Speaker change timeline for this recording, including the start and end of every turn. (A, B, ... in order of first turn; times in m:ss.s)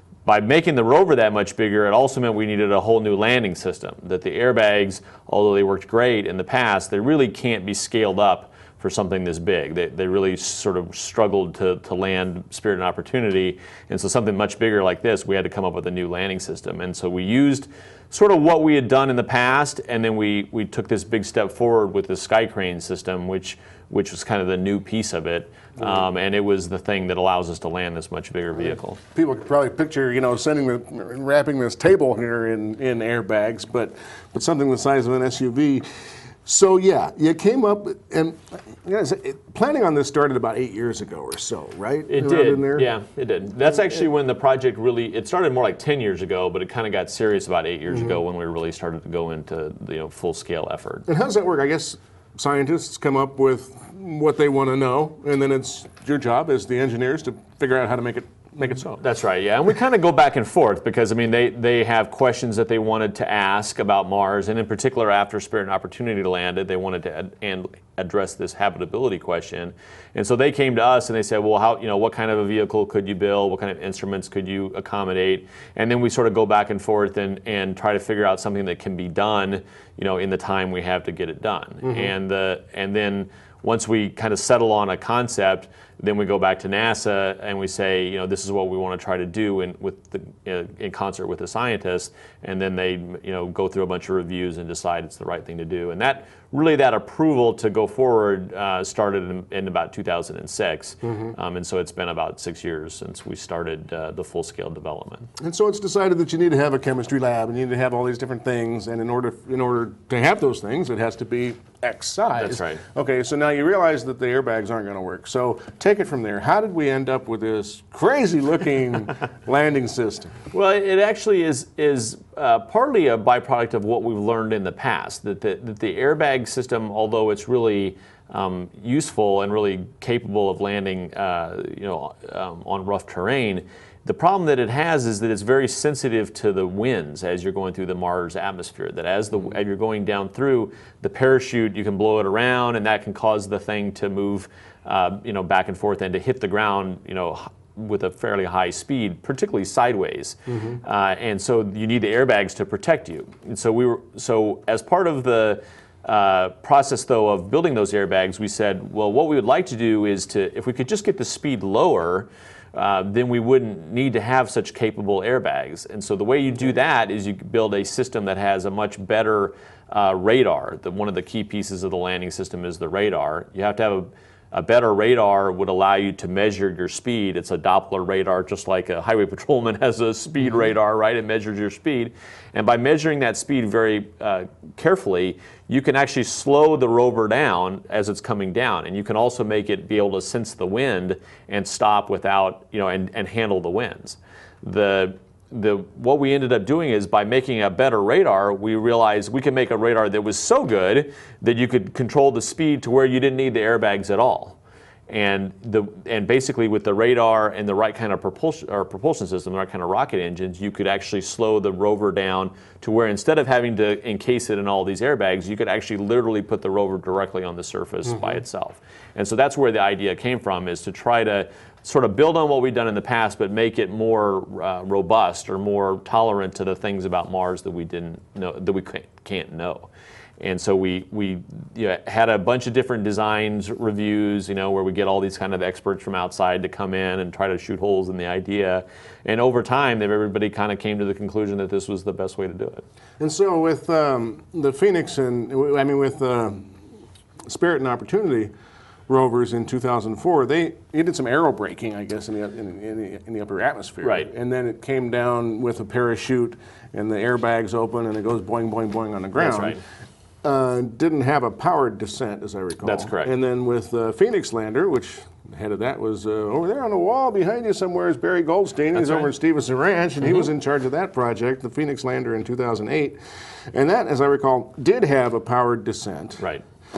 0:00.3-0:29.0 A
0:28.6-0:42.9 B
0:42.1-0:51.1 A
0:47.9-0:48.2 B
0:51.1-0:58.9 B
0:58.7-1:45.3 A
1:21.8-1:22.1 B
1:41.0-1:41.3 B
1:45.4-2:00.4 B
1:52.4-1:52.8 A
2:00.5-3:49.9 A
3:50.4-4:02.8 A
4:03.2-4:06.8 B
4:07.4-4:08.5 B
4:09.1-4:19.8 B
4:14.0-4:14.3 A
4:19.4-4:19.8 A
4:20.4-4:33.2 B
4:22.8-4:23.3 A
4:28.9-4:29.3 A
4:33.7-4:36.4 B
4:36.4-4:36.6 A